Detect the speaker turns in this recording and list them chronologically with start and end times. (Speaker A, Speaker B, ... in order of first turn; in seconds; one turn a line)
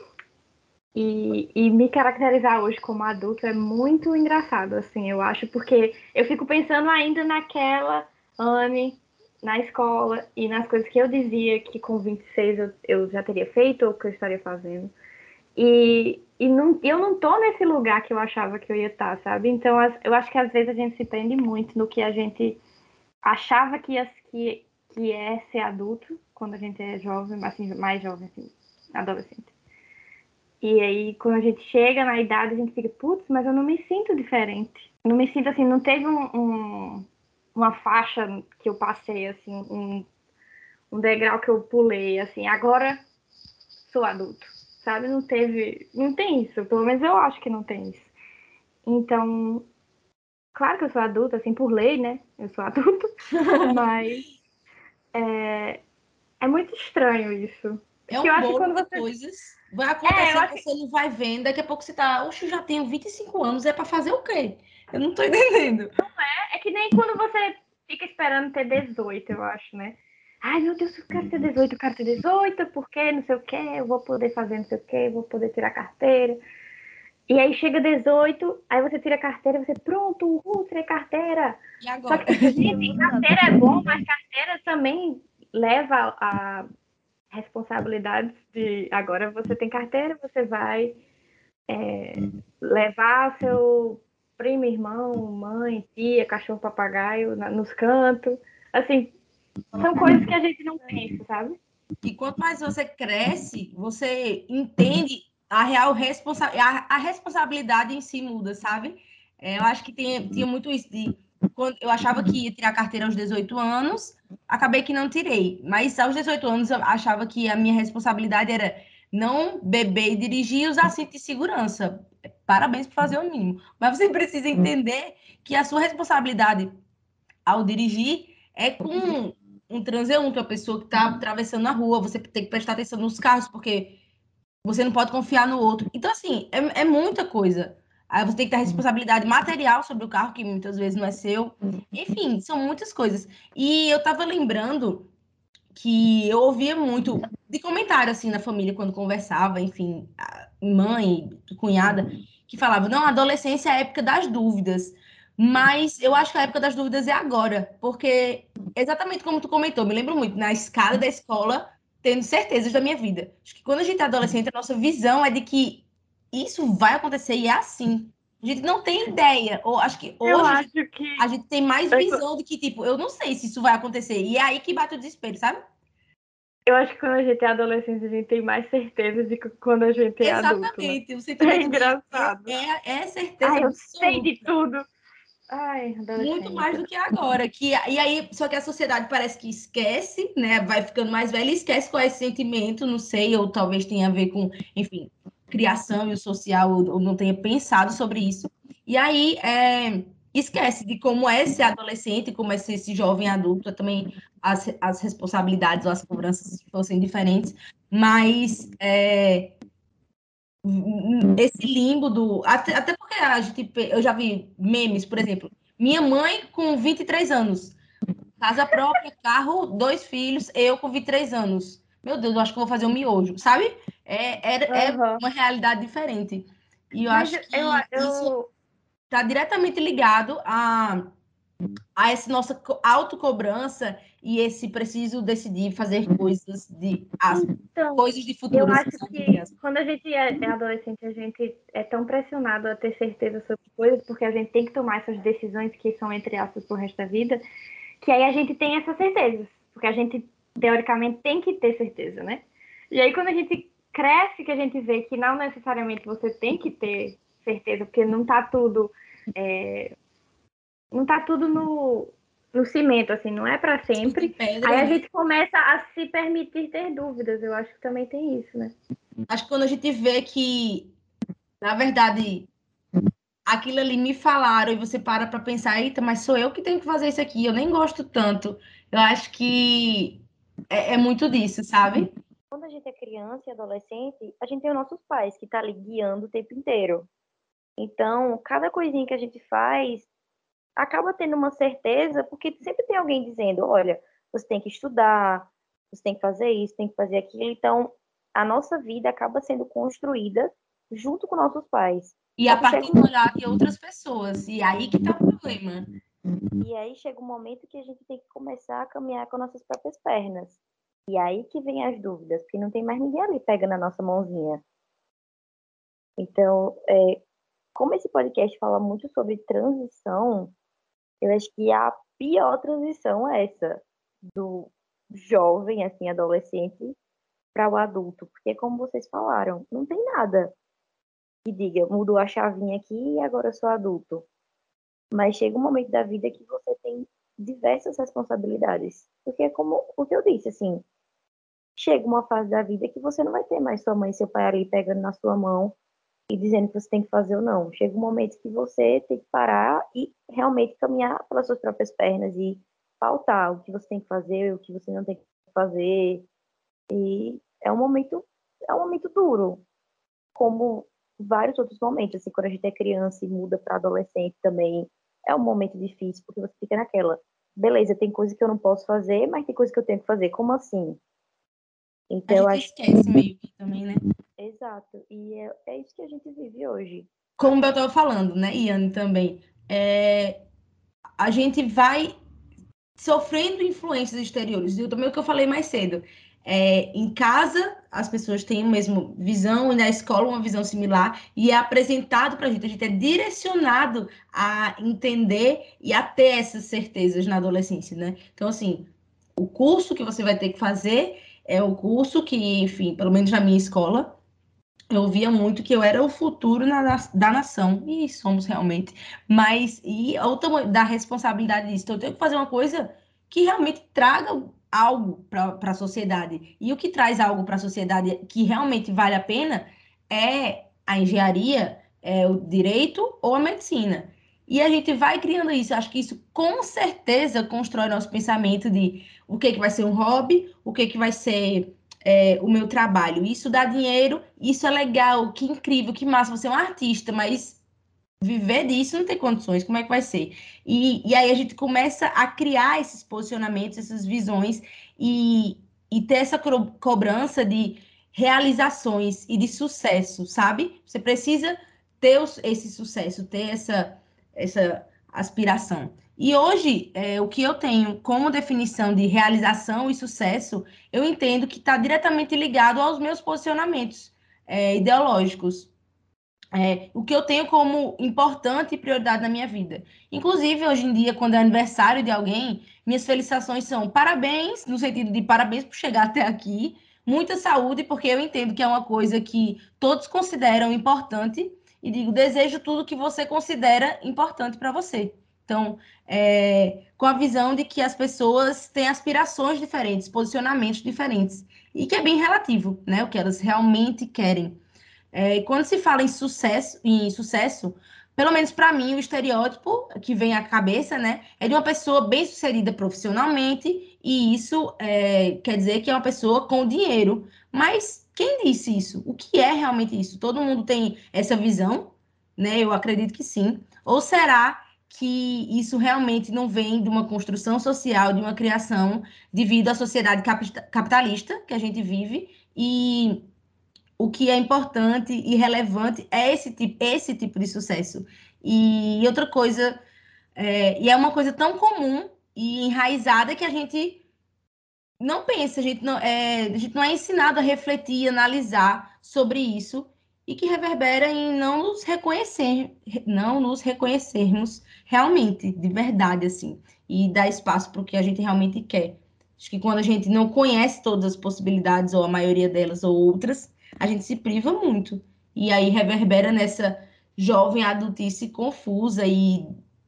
Speaker A: 1.0-14.9
Speaker A: 15.6-22.6
Speaker A: 23.2-29.5
Speaker A: 30.6-40.1
Speaker A: 40.9-43.0
Speaker A: 43.9-48.1
Speaker A: 48.9-49.7
Speaker A: 50.5-53.1
Speaker B: 53.3-53.8
Speaker A: 53.6-54.2
Speaker A: 55.1-55.8
Speaker A: 56.4-59.1
Speaker B: 58.1-65.9
Speaker A: 60.0-60.6
Speaker A: 66.0-76.4
Speaker A: 77.3-86.7
Speaker B: 81.8-83.7
Speaker A: 87.3-91.0
Speaker A: 91.7-99.1
Speaker A: 99.8-101.6
Speaker B: 102.0-126.8
Speaker B: 127.5-134.0
Speaker B: 134.7-145.1
Speaker B: 145.8-175.6
Speaker A: 170.2-171.3
Speaker A: 171.9-172.2
Speaker A: 176.7-182.6
Speaker B: 180.2-184.5
Speaker A: 183.4-184.9
Speaker A: 185.5-186.8
Speaker B: 186.2-209.6
Speaker B: 210.7-217.8
Speaker B: 218.4-228.3
Speaker A: 224.7-225.2
Speaker A: 227.1-228.5
Speaker B: 229.1-231.1
Speaker B: 232.0-239.5
Speaker A: 237.3-247.4
Speaker A: 248.0-259.9
Speaker A: 260.9-268.7
Speaker B: 264.0-265.0
Speaker B: 269.3-270.9
Speaker B: 271.6-272.5
Speaker B: 273.5-282.2
Speaker C: 282.5-287.1
Speaker C: 287.8-290.1
Speaker C: 290.8-303.1
Speaker B: 302.4-305.9
Speaker C: 306.6-314.6
Speaker C: 316.2-317.2
Speaker C: 317.8-320.5
Speaker C: 321.2-327.0
Speaker C: 327.5-330.5
Speaker C: 331.4-334.3
Speaker C: 335.1-340.9
Speaker C: 341.8-345.8
Speaker C: 346.3-356.3
Speaker C: 356.9-359.6
Speaker C: 360.4-371.0
Speaker C: 372.1-372.7
Speaker B: 372.3-374.0
Speaker C: 374.4-377.1
Speaker B: 377.4-380.4
Speaker B: 381.2-382.1
Speaker B: 383.0-404.2
Speaker B: 404.9-437.6
Speaker B: 438.2-465.7
Speaker B: 466.6-494.6
Speaker B: 495.1-523.3
Speaker B: 524.0-529.8
Speaker B: 530.4-534.0
Speaker B: 535.0-559.5